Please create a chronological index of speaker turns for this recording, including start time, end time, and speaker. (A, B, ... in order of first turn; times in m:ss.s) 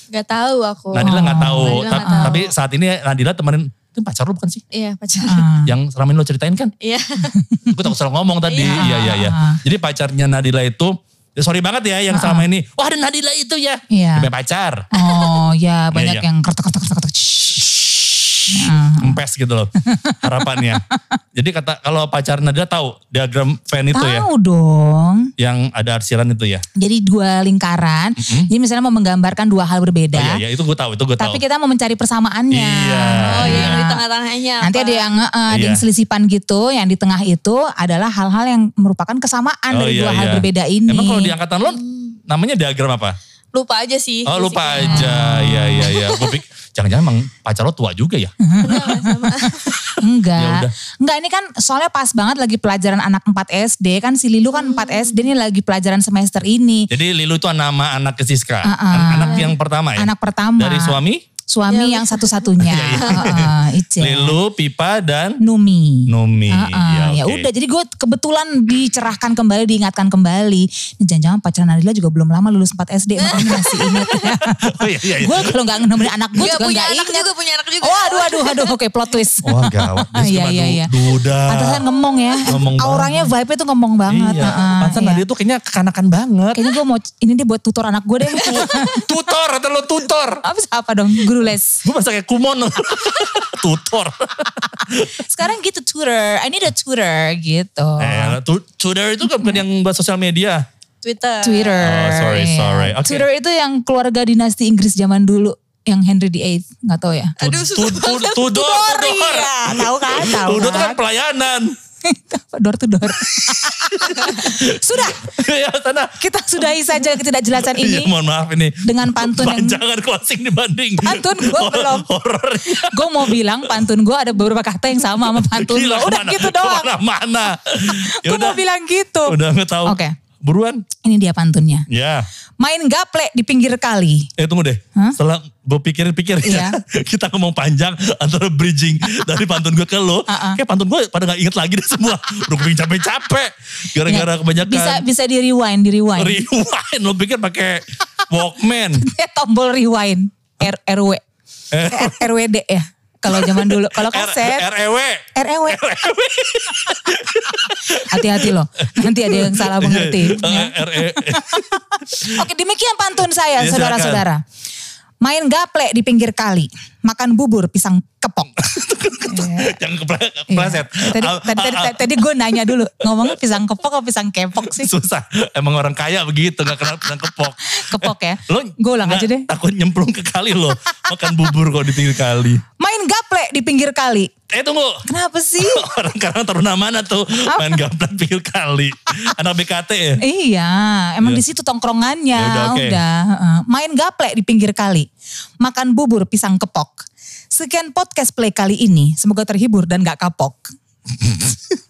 0:00.1-0:02.5 A
0:00.9-0:04.6 B
0:01.0-0:02.4 C
0:04.7-0:05.5 A
0:05.2-0:05.7 C
0:05.6-0:06.7 B
0:06.8-0:07.3 A
0:07.3-0:07.9 C
0:07.7-0:15.0 B
0:08.5-0:09.1 A
0:08.7-0:09.6 C
0:12.1-0:12.5 C
0:13.9-0:14.3 C
0:14.9-0:17.7 C
0:15.9-0:16.2 B
0:17.6-0:19.7 B
0:18.5-0:19.2 C
0:19.8-0:20.7 C
0:20.2-0:20.8 B
0:21.4-0:24.3 B
0:23.9-0:25.3 C
0:25.4-0:26.6 B
0:26.8-0:30.4 C
0:28.2-0:28.5 B
0:30.1-0:31.4 B
0:31.2-0:33.9 C
0:32.5-0:34.0 B
0:33.2-0:35.1 A
0:34.6-0:41.4 C
0:35.5-0:35.8 B
0:39.7-0:43.2 B
0:41.7-0:42.2 A
0:43.5-0:46.3 A
0:44.3-0:48.4 B
0:44.8-0:45.8 C
0:48.4-0:56.9 C
0:48.6-0:49.8 A
0:50.4-0:50.7 B
0:56.9-1:01.2 B
0:58.6-1:04.4 C
0:59.1-0:59.5 A
1:01.7-1:02.6 A
1:02.6-1:05.4 B
1:03.1-1:03.4 A
1:05.4-1:17.3 C
1:06.1-1:07.5 B
1:13.2-1:14.2 A
1:14.6-1:15.6 B
1:16.4-1:18.8 A
1:17.8-1:20.9 C
1:19.4-1:21.8 B
1:21.5-1:25.2 C
1:21.6-1:22.4 A
1:22.5-1:23.3 B
1:24.1-1:26.7 B
1:26.6-1:29.1 C
1:28.3-1:30.4 B
1:30.4-1:31.8 C
1:31.8-1:35.2 B
1:35.1-1:38.4 C
1:38.0-1:40.6 B
1:39.2-1:39.6 C
1:41.0-1:41.8 A
1:41.4-1:47.4 C
1:41.8-1:43.3 B
1:47.4-1:49.1 A
1:47.4-1:51.7 B
1:48.6-1:51.0 C
1:52.0-1:55.3 C
1:53.2-1:56.2 B
1:56.2-1:58.1 C
1:56.7-1:57.1 B
1:57.6-2:03.8 B
1:58.8-1:59.8 C
2:01.0-2:02.1 C
2:02.6-2:07.0 C
2:05.0-2:08.6 B
2:07.8-2:10.1 C
2:09.3-2:10.8 B
2:11.0-2:11.9 C
2:11.9-2:12.3 B
2:12.6-2:14.3 C
2:14.4-2:25.0 B
2:16.4-2:16.8 C
2:20.3-2:20.6 C
2:24.0-2:26.4 C
2:26.2-2:29.0 B
2:29.0-2:31.2 C
2:31.7-2:32.3 B
2:31.9-2:34.7 C
2:33.3-2:38.2 B
2:35.4-2:35.8 C
2:37.6-2:44.4 C
2:39.0-2:42.4 B
2:43.6-2:44.3 B
2:45.2-2:48.6 C
2:48.6-2:52.7 B
2:49.3-2:49.8 C
2:50.5-2:54.9 C
2:54.6-3:02.6 B
2:57.6-2:59.5 C
3:00.8-3:01.4 C
3:02.8-3:04.3 C
3:04.5-3:05.0 B
3:05.1-3:05.8 C
3:05.6-3:10.2 B
3:07.5-3:07.8 C
3:10.2-3:15.1 C
3:12.4-3:13.0 B
3:15.6-3:20.7 C
3:21.2-3:21.6 B